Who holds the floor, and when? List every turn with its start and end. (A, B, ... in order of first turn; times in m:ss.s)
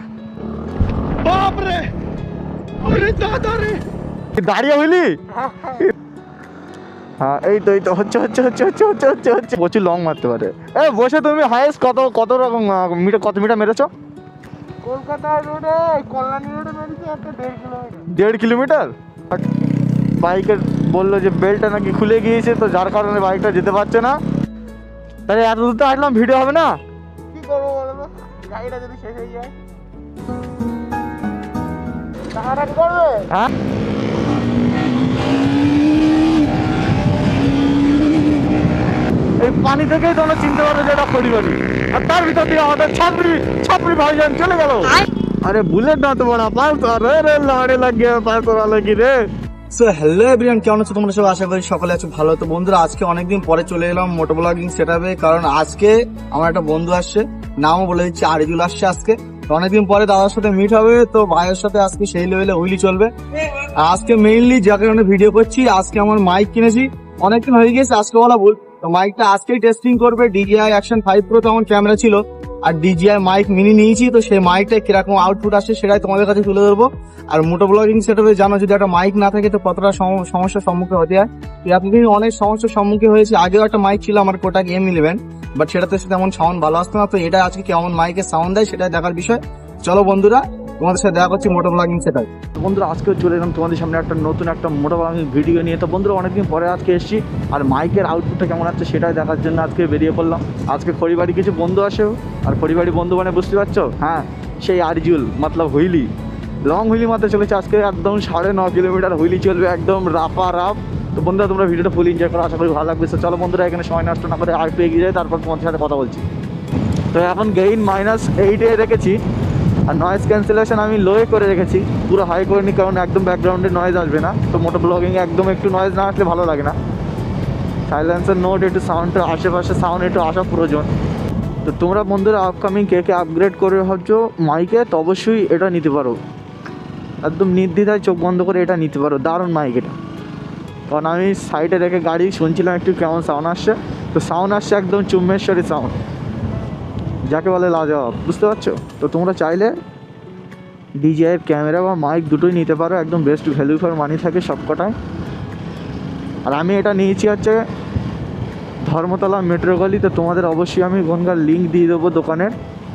0:01.2-0:01.9 A
0:02.8-0:03.8 A
0:04.3-0:05.2 B
0:05.4-0:05.8 C
0:07.2-0:13.9 B
0:14.8-0:18.1 C
0:18.0-0:19.4 B
0:20.2-0:24.2 B
0:25.3-0:26.8 B
0:27.3-0:29.5 C
0:32.3-0:33.3 C
0:39.4-0:49.2 B
0:49.7-1:32.3 A
1:32.5-1:46.1 B
1:46.7-1:56.2 B
1:57.1-1:59.2 B
1:59.9-2:06.8 B
2:07.9-2:10.9 B
2:11.6-2:16.2 B
2:17.2-2:19.9 B
2:20.9-2:26.0 B
2:27.3-2:29.7 B
2:31.0-2:35.0 B
2:36.5-2:37.6 B
2:38.8-2:42.5 B